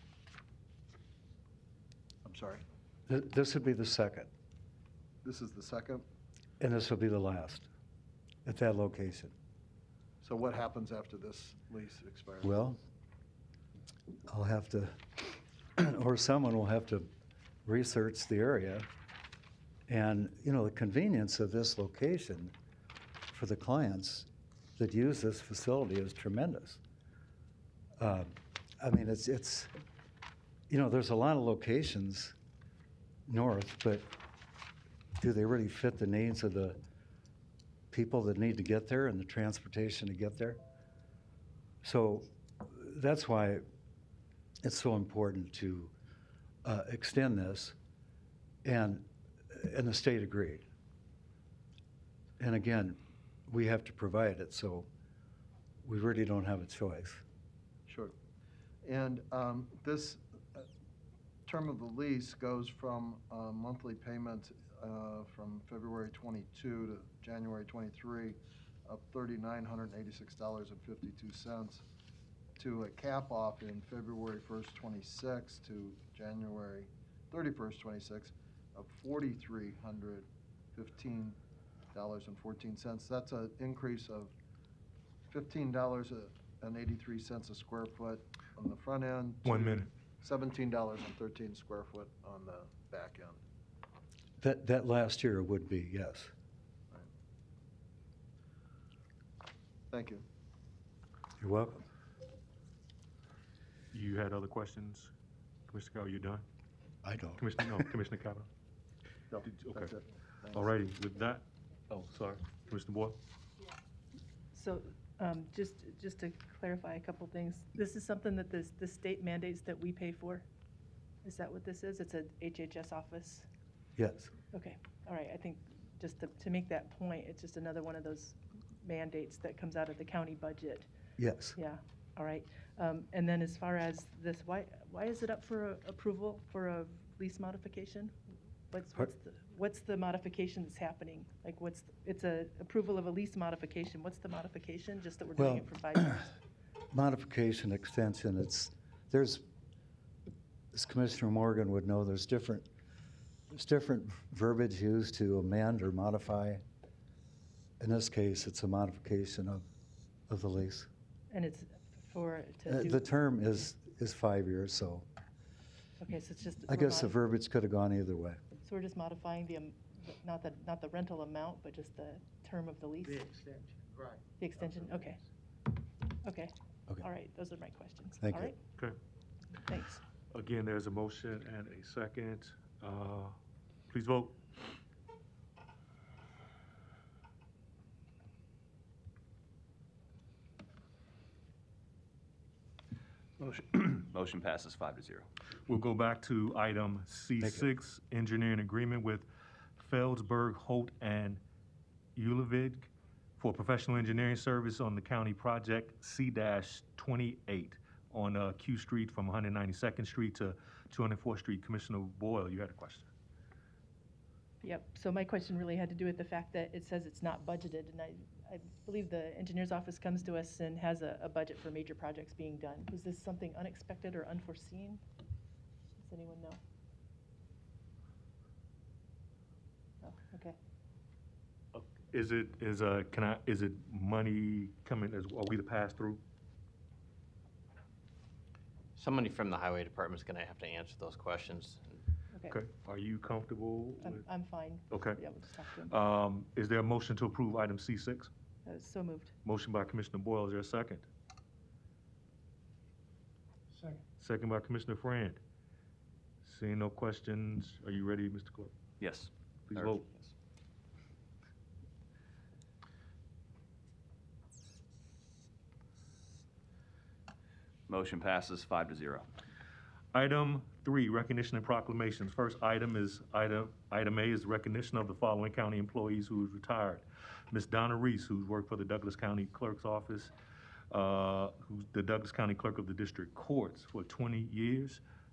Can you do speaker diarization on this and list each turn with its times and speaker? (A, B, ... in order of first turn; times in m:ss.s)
0:02.2-0:02.6 A
0:03.1-0:04.3 B
0:05.2-0:06.0 A
0:06.6-0:07.7 B
0:08.4-0:09.3 B
0:10.2-0:12.5 A
0:12.4-0:12.8 B
0:14.3-0:17.1 B
0:17.6-0:18.9 B
0:19.9-0:22.5 B
0:23.3-0:26.8 B
0:28.0-0:29.7 B
0:30.7-0:32.4 B
0:33.3-0:34.1 B
0:35.2-0:36.8 B
0:37.9-0:40.6 B
0:41.8-0:43.6 B
0:44.6-0:45.9 B
0:46.6-0:47.8 B
0:48.6-0:50.6 B
0:52.4-0:54.9 B
0:55.8-0:57.2 B
0:57.9-0:58.2 A
0:58.8-1:00.7 A
1:01.5-1:11.8 A
1:12.6-1:21.4 A
1:21.9-1:24.3 A
1:25.3-1:33.4 A
1:29.4-1:29.9 C
1:34.4-1:36.3 B
1:39.9-1:40.2 A
1:41.4-1:41.9 B
1:43.9-1:45.1 C
1:45.7-1:46.4 C
1:47.0-1:47.9 B
1:47.4-1:48.5 C
1:49.3-1:50.7 A
1:49.4-1:49.9 C
1:50.5-1:53.2 C
1:54.5-2:00.5 D
2:01.2-2:03.5 D
2:04.0-2:04.3 B
2:04.5-2:10.9 D
2:11.2-2:11.6 B
2:11.6-2:18.2 D
2:18.7-2:26.3 D
2:25.4-2:26.2 B
2:26.9-2:29.4 B
2:30.7-2:32.7 B
2:33.5-2:36.6 B
2:37.8-2:39.6 B
2:40.3-2:40.9 B
2:41.3-2:43.0 D
2:42.7-2:45.1 B
2:46.0-2:47.1 D
2:46.7-2:48.4 B
2:48.6-2:53.4 D
2:54.4-2:55.2 D
2:56.2-2:58.6 D
2:58.2-2:58.5 B
2:59.6-3:00.0 D
3:00.3-3:03.4 C
3:03.9-3:04.4 C
3:13.4-3:15.3 E
3:15.7-3:21.4 C
3:17.4-3:17.7 B
3:22.2-3:33.1 C
3:34.6-3:45.0 D
3:46.0-3:46.6 D
3:50.0-3:50.6 D
3:51.7-3:56.2 C
3:59.0-4:02.0 F
4:02.3-4:02.6 D
4:02.5-4:04.2 C
4:04.0-4:06.0 D
4:04.9-4:05.2 C
4:05.9-4:08.3 C
4:08.7-4:09.3 D
4:09.4-4:11.1 C
4:14.2-4:15.4 C
4:16.4-4:18.7 C
4:19.0-4:19.9 E
4:19.7-4:20.1 C
4:27.9-4:29.3 E
4:30.1-4:40.3 C
4:40.9-4:45.0 C